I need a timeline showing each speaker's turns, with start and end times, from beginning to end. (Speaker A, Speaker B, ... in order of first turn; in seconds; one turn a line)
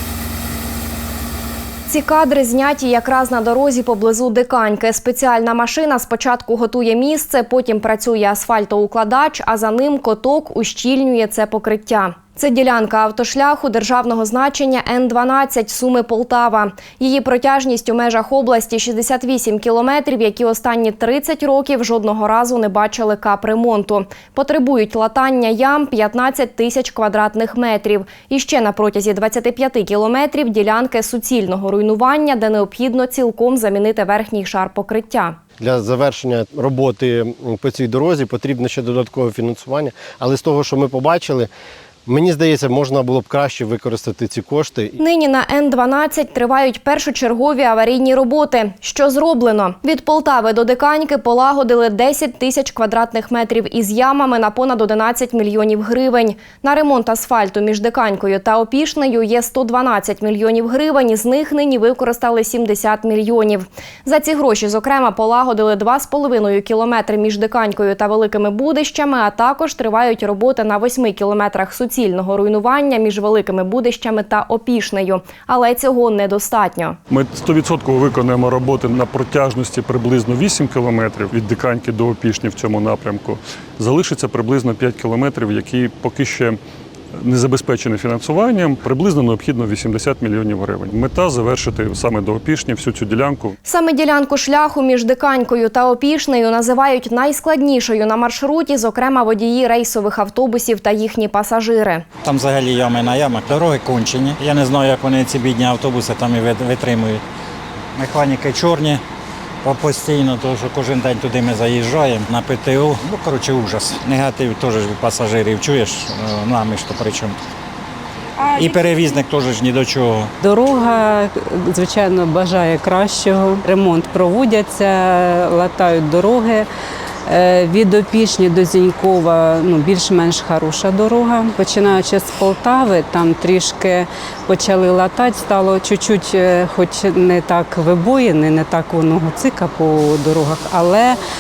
Speaker A: 1.9-35.4
Speaker B: 35.6-41.5
Speaker B: 42.1-45.0
Speaker A: 45.0-77.0
Speaker C: 77.1-86.6
Speaker C: 87.2-93.6
Speaker A: 93.7-102.0
Speaker D: 102.2-107.2
Speaker D: 108.0-109.0
Speaker D: 109.6-117.4
Speaker D: 118.4-120.3
Speaker E: 120.4-126.7
Speaker E: 127.3-141.2